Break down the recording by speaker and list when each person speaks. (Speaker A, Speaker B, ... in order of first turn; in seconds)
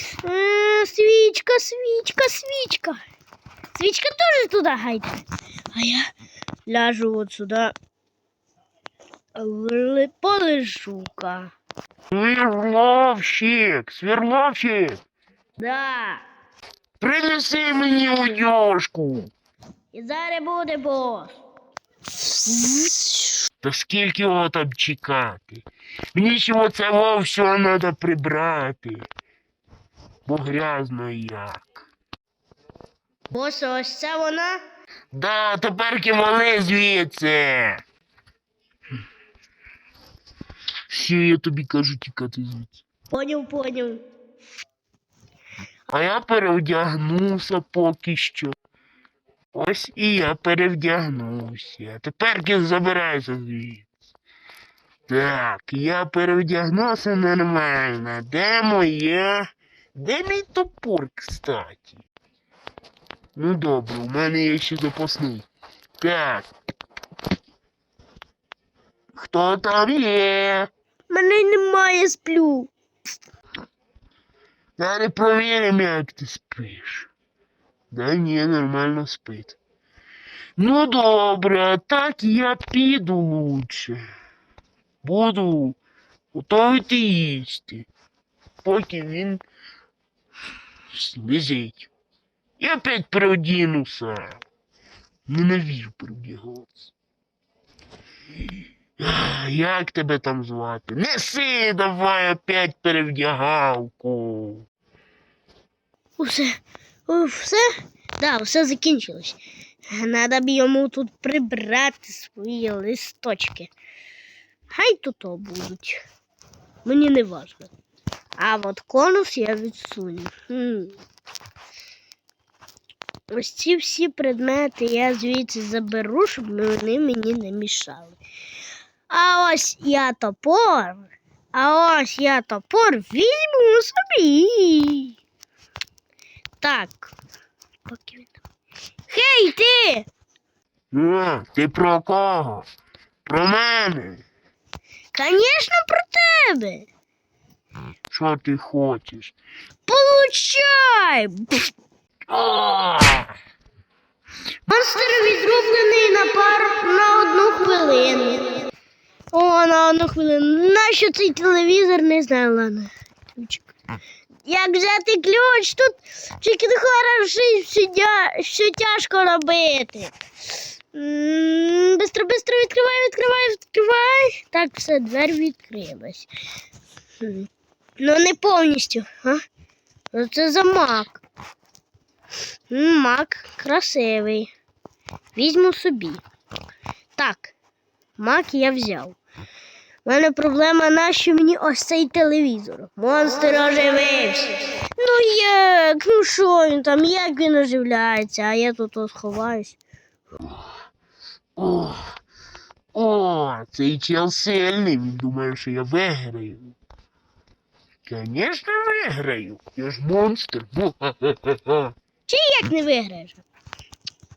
Speaker A: 0.2-3.0, 3.8-5.1, 5.7-6.1, 6.7-7.8, 9.3-11.5, 15.6-16.2, 19.9-21.4, 22.5-23.1, 33.3-34.6, 43.1-44.0, 71.1-72.7, 106.2-107.7, 108.2-109.4, 109.9-113.7, 114.7-116.0, 116.8-117.7, 118.4-121.0, 123.3-128.2, 129.1-135.1, 136.6-137.1, 137.9-138.4, 139.1-140.1, 145.1-146.9, 149.9-151.7, 154.7-158.6, 159.3-163.7, 164.5-170.1, 170.9-176.3, 177.2-177.5, 178.0-179.4, 180.1-181.2, 182.7-184.5, 185.4-186.2, 187.2-187.5, 188.2-189.2, 190.1-199.8, 212.3-213.4
Speaker B: 12.1-15.0, 17.0-19.3, 23.6-29.1, 30.3-31.8, 35.1-37.8, 40.9-42.8, 45.9-48.5, 49.5-53.9, 55.1-62.0, 63.4-65.5, 66.0-66.5, 69.1-70.7, 74.8-77.1, 77.9-79.6, 80.6-84.0, 85.0-85.8, 86.3-87.9, 88.6-89.4, 90.9-91.9, 92.6-94.4, 95.3-96.9, 99.0-104.7, 140.9-142.7, 143.3-144.2, 148.1-149.3, 152.3-153.3, 201.6-202.2, 202.9-206.8, 208.1-211.9